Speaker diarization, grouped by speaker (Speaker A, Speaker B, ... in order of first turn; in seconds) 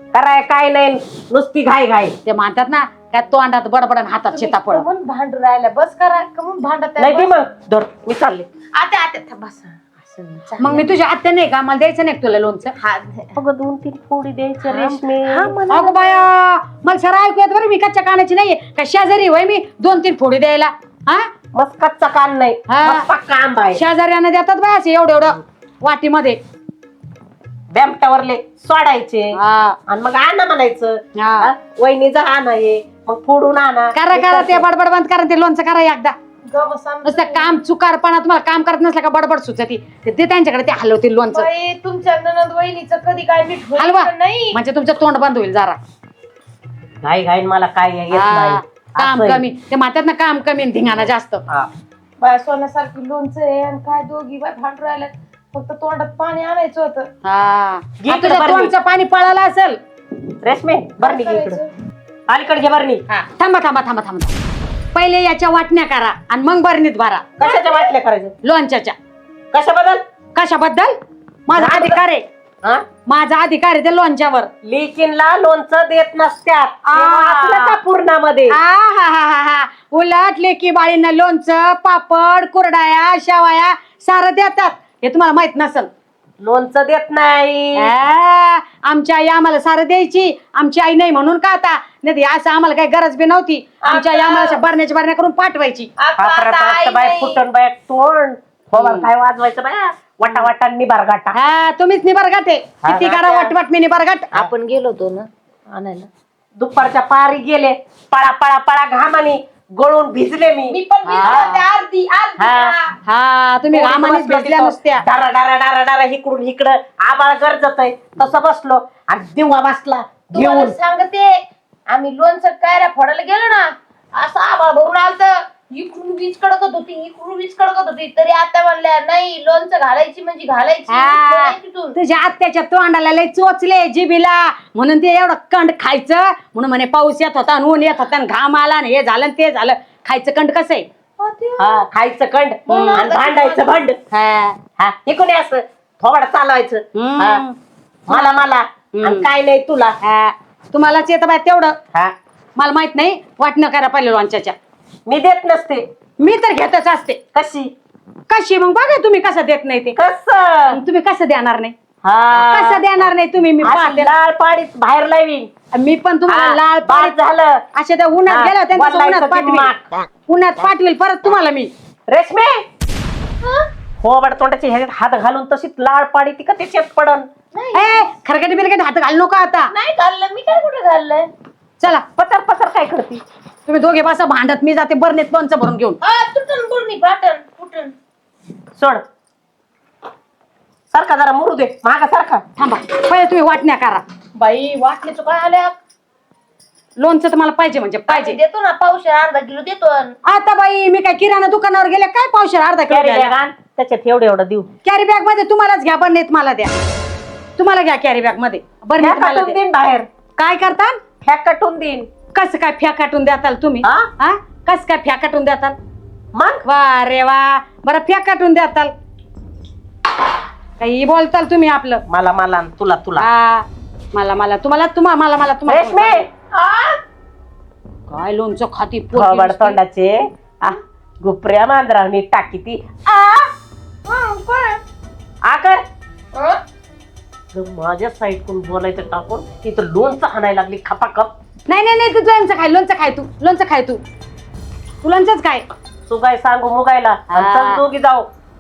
Speaker A: 0.1-2.1, 7.0-8.5, 13.4-16.0, 21.5-23.8, 27.7-29.4, 29.9-34.7, 47.0-49.4, 58.0-58.7, 60.4-61.6, 62.3-63.0, 67.4-68.3, 69.5-70.0, 71.5-72.0, 74.6-78.6, 86.4-87.9, 96.2-101.3, 102.8-103.1, 106.6-111.5, 112.4-112.8, 113.7-120.8, 141.6-144.0, 144.8-147.4, 148.1-150.0, 155.1-155.8, 157.3-157.7, 160.0-160.8, 162.0-163.0, 163.6-165.5, 166.3-167.6, 168.3-169.8, 172.1-172.6, 174.0-177.3, 181.9-183.2, 188.8-189.0, 190.9-192.4, 202.9-204.7, 209.0-210.1, 211.2-212.1, 216.3-216.6, 222.1-223.3, 225.7-226.3, 229.2-233.5, 235.4-235.8, 237.5-241.3, 246.1-248.3
Speaker B: 2.2-4.9, 10.6-12.7, 15.7-21.3, 22.7-23.1, 23.8-26.4, 29.4-29.8, 31.2-31.5, 34.0-36.2, 37.0-41.5, 43.8-45.8, 48.1-51.5, 57.2-59.8, 63.3-64.4, 64.9-67.3, 68.4-69.0, 70.3-71.0, 71.5-72.2, 73.0-74.5, 76.9-77.8, 78.5-85.9, 87.8-95.9, 98.8-99.1, 101.4-104.3, 111.1-111.6, 113.0-115.0, 130.9-140.9, 142.7-143.1, 144.1-144.6, 147.0-147.6, 148.1-148.4, 148.9-149.3, 150.0-151.8, 152.6-154.6, 156.2-157.2, 158.3-160.0, 160.7-161.8, 162.4-164.1, 165.7-167.2, 167.8-169.7, 170.3-171.7, 177.7-179.7, 183.7-186.0, 192.6-194.0, 197.0-198.4, 200.2-203.3, 204.8-206.7, 207.6-209.6, 210.4-211.0, 212.3-215.8, 216.7-218.9, 220.8-222.0, 223.2-226.2, 228.1-229.8, 241.7-244.0, 245.0-245.7, 247.3-247.8
Speaker C: 4.3-7.4, 8.8-10.9, 12.8-13.3, 14.7-15.4, 36.5-37.6, 41.4-44.6, 52.2-57.1, 61.0-61.7, 67.5-67.8, 93.8-94.6, 96.0-97.4, 102.9-103.5, 104.3-106.1, 110.7-112.9, 120.3-121.3, 121.9-132.0, 141.2-141.8, 142.7-143.9, 173.4-173.7, 177.5-178.0, 179.7-181.3, 186.0-187.9, 194.4-195.8, 198.1-200.2, 226.5-227.0, 234.1-234.8, 236.3-236.6